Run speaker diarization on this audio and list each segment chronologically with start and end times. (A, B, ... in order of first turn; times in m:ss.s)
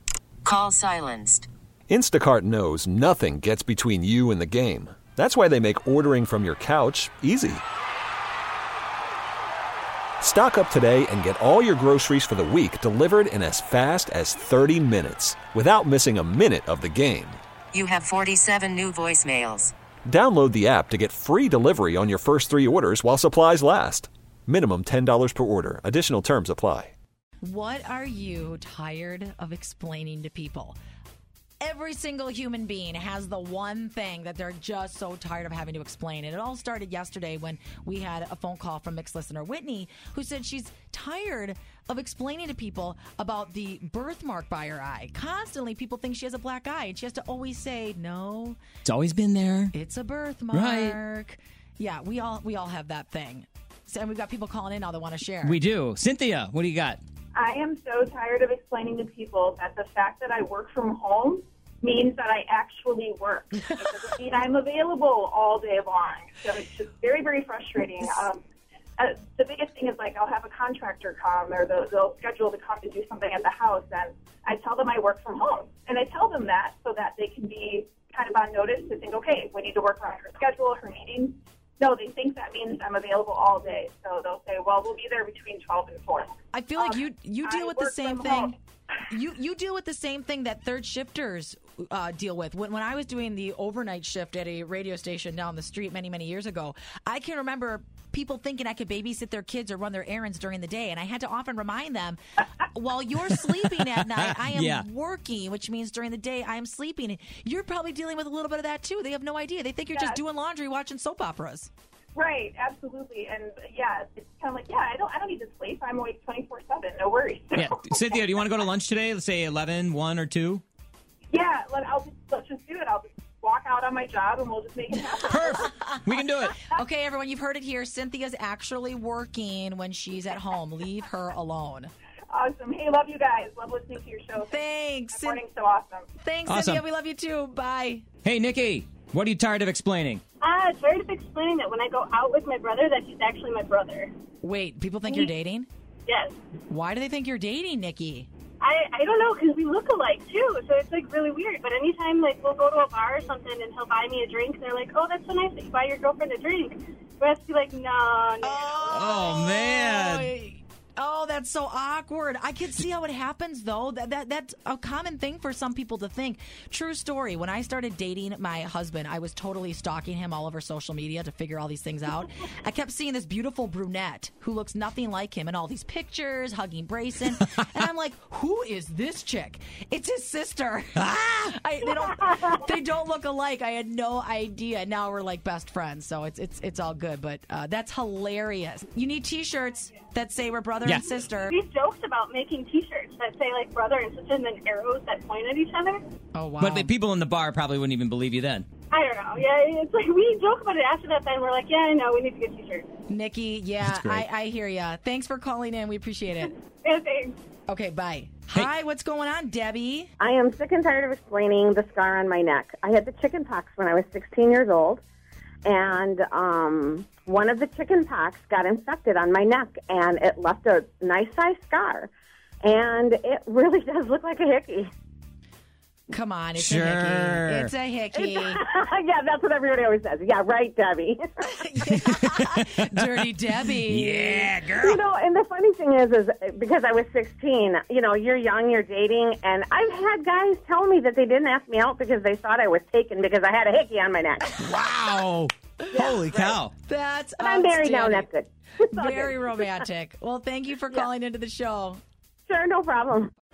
0:00.4-0:01.5 A
0:01.9-0:07.6 B
0:10.2-0:17.4 B
0:17.7-0:19.7 A
0:20.0-0:26.9 B
0:27.4-0:30.8 C
0:31.6-0:48.6 C
0:48.8-0:49.7 D
0:49.7-0:55.6 C
0:50.5-0:51.0 D
0:55.4-0:57.0 D
0:57.3-1:08.4 E
1:09.0-1:28.5 E
1:26.5-1:28.5 C
1:29.1-1:51.7 C
1:44.2-1:44.8 B
1:52.1-1:58.6 E
1:57.5-2:00.6 D
2:01.3-2:06.5 E
2:05.3-2:06.6 D
2:05.6-2:05.9 C
2:06.7-2:11.9 C
2:12.3-2:16.1 E
2:14.5-2:15.4 C
2:16.2-2:18.0 C
2:16.5-2:16.8 D
2:18.2-2:20.2 D
2:20.4-2:24.1 F
2:24.4-2:25.7 C
2:26.1-2:26.4 F
2:26.7-2:28.3 C
2:28.6-2:38.9 F
2:38.4-3:11.6 C
2:38.9-2:40.3 D
3:11.5-3:16.0 F
3:16.3-3:16.9 C
3:16.6-3:18.7 D
3:18.9-3:22.8 F
3:23.1-3:26.5 C
3:23.8-3:24.2 B
3:26.8-3:27.4 F
3:27.7-3:30.1 C
3:30.2-3:35.0 G
3:35.6-3:42.1 G
3:42.6-3:44.9 G
3:46.1-3:48.6 C
3:46.6-3:47.5 D
3:48.2-3:51.3 G
3:51.5-3:54.5 C
3:54.1-3:54.9 B
3:54.7-4:04.5 G
4:04.7-4:05.3 D
4:05.8-4:06.2 C
4:05.9-4:06.6 G
4:06.0-4:06.7 D
4:06.8-4:08.3 C
4:07.4-4:09.6 G
4:08.9-4:12.0 C
4:12.5-4:13.3 G